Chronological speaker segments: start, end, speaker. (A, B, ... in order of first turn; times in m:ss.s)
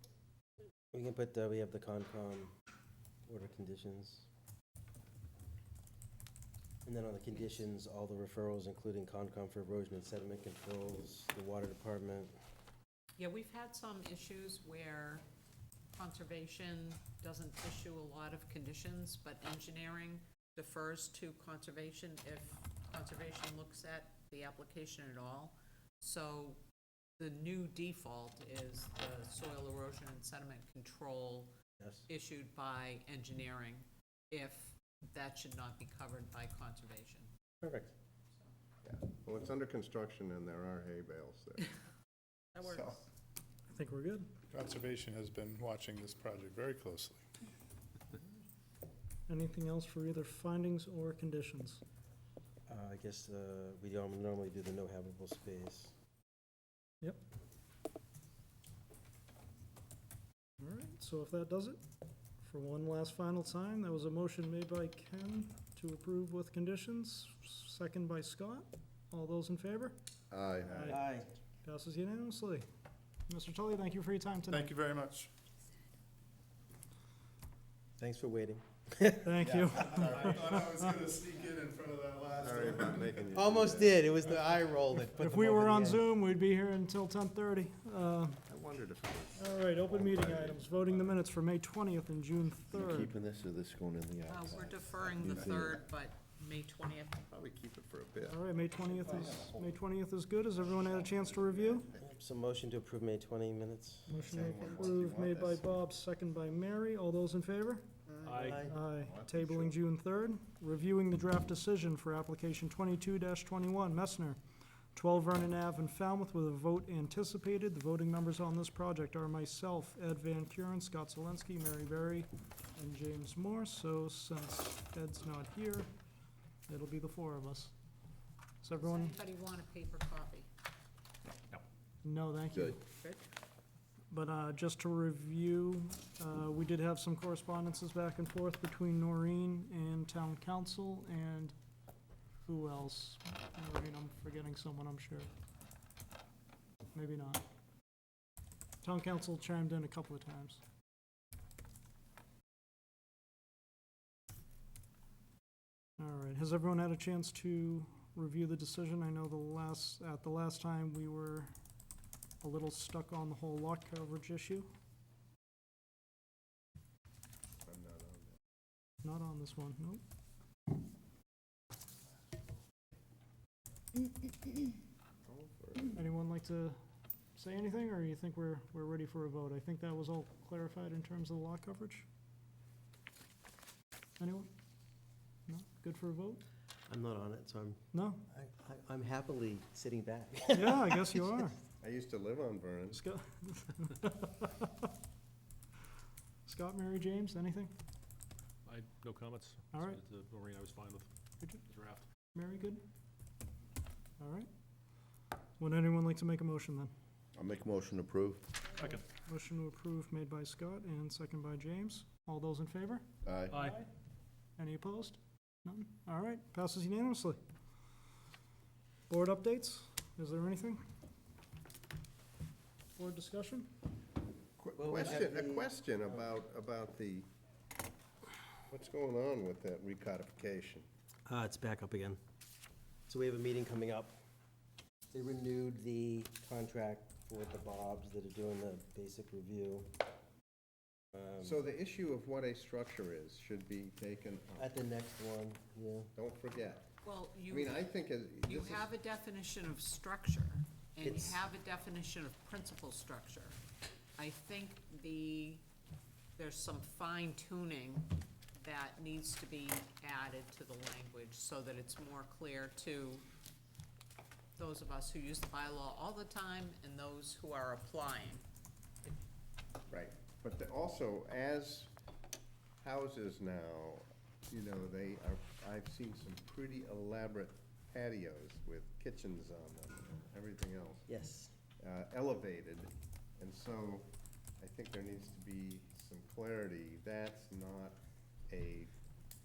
0:00.9-0:02.5 A
0:03.3-0:04.3 A
0:06.8-0:12.3 A
0:13.2-0:15.2 B
0:16.0-0:26.6 B
0:27.2-0:31.5 B
0:31.8-0:32.1 A
0:32.1-0:37.3 B
0:37.6-0:37.9 A
0:38.8-0:41.7 C
0:42.6-0:43.0 B
0:42.6-0:43.0 C
0:43.7-0:44.3 D
0:44.5-0:47.2 E
0:49.3-0:51.8 D
0:52.7-0:55.9 A
1:00.6-1:01.8 D
1:02.4-1:10.0 D
1:10.3-1:11.0 C
1:10.6-1:11.0 D
1:10.9-1:11.3 A
1:11.6-1:12.6 D
1:13.3-1:14.7 D
1:14.5-1:15.3 E
1:18.0-1:19.4 A
1:19.2-1:20.9 D
1:19.8-1:23.2 E
1:22.4-1:24.0 C
1:23.3-1:26.1 A
1:25.2-1:28.4 D
1:28.5-1:31.2 C
1:29.4-1:33.1 D
1:32.7-1:35.8 F
1:34.3-1:37.2 B
1:34.6-1:35.8 C
1:37.3-1:39.7 C
1:38.2-1:41.9 D
1:40.7-1:42.1 C
1:42.0-1:44.2 A
1:44.1-1:47.8 D
1:44.2-1:45.6 C
1:48.1-1:49.7 C
1:48.2-1:48.6 G
1:48.4-1:48.8 A
1:48.7-1:54.4 D
1:54.9-2:05.9 D
2:06.7-2:07.7 D
2:08.6-2:09.2 D
2:08.8-2:10.5 B
2:12.0-2:12.8 D
2:14.1-2:21.6 D
2:22.5-2:25.3 D
2:26.9-2:27.4 D
2:28.8-2:30.6 D
2:36.0-2:41.5 D
2:42.4-2:44.7 D
2:47.6-2:48.4 C
2:49.0-2:50.0 D
2:55.3-2:56.0 C
2:55.9-2:56.8 D
2:57.4-3:02.1 D
3:04.2-3:04.5 D
3:05.5-3:06.4 D
3:06.9-3:11.2 A
3:07.9-3:08.2 D
3:10.5-3:11.6 D
3:11.8-3:13.0 C
3:12.9-3:14.7 D
3:16.5-3:17.7 D
3:18.7-3:21.1 G
3:19.7-3:20.0 D
3:21.6-3:22.0 G
3:22.3-3:22.8 D
3:24.2-3:24.5 D
3:25.6-3:26.9 D
3:27.4-3:28.6 F
3:28.8-3:29.0 G
3:29.2-3:33.9 D
3:33.2-3:33.6 F
3:33.5-3:33.8 G
3:34.6-3:37.4 D
3:39.1-3:40.8 D
3:43.0-3:43.7 D
3:44.6-3:47.3 C
3:44.8-3:45.7 A
3:48.7-3:50.9 C
3:51.3-3:52.2 A
3:53.1-3:54.2 A
3:55.1-3:59.9 A
4:01.2-4:01.5 A
4:01.4-4:04.7 C
4:04.6-4:06.1 A
4:06.2-4:06.9 C
4:07.0-4:07.9 B
4:07.5-4:08.9 C
4:08.4-4:13.6 B
4:11.0-4:11.4 A
4:14.2-4:15.6 B
4:16.4-4:23.2 B
4:24.6-4:28.4 B
4:29.9-4:31.9 C
4:32.8-4:41.1 C
4:41.1-4:41.5 A
4:41.8-4:48.9 C